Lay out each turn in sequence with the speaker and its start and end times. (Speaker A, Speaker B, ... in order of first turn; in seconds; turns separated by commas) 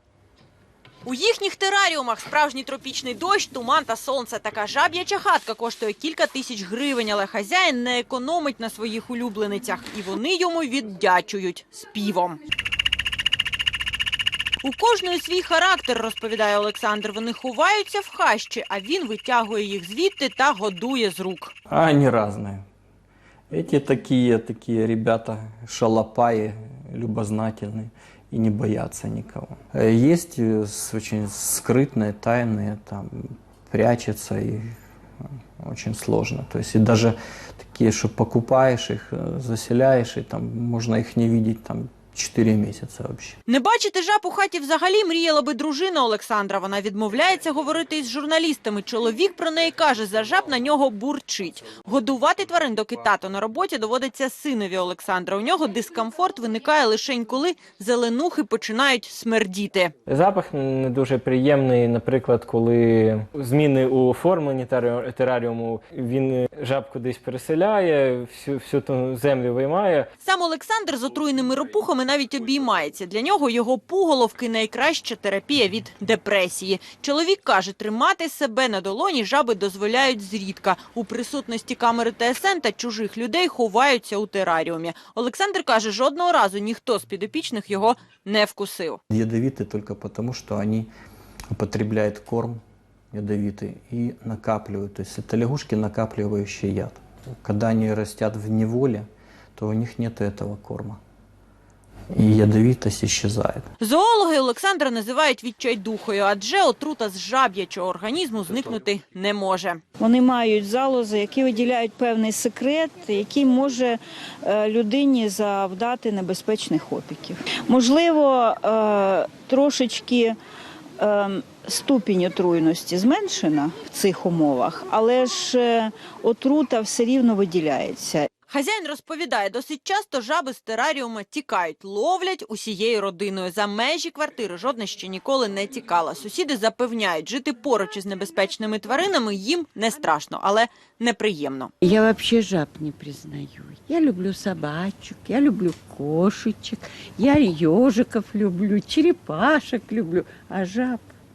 Speaker A: 1.1-12.4, Speaker A: 14.6-21.5, Speaker B: 21.7-22.6, Speaker B: 23.5-34.8, Speaker B: 35.6-43.4, Speaker A: 43.5-59.9, Speaker C: 60.1-70.1, Speaker A: 70.2-89.0, Speaker B: 89.1-90.9, Speaker B: 91.5-92.6, Speaker B: 93.1-99.0, Speaker B: 99.5-101.0, Speaker B: 102.1-103.7, Speaker A: 103.8-109.8, Speaker D: 110.0-120.3, Speaker D: 121.0-128.3, Speaker A: 128.5-141.7, Speaker E: 141.8-151.1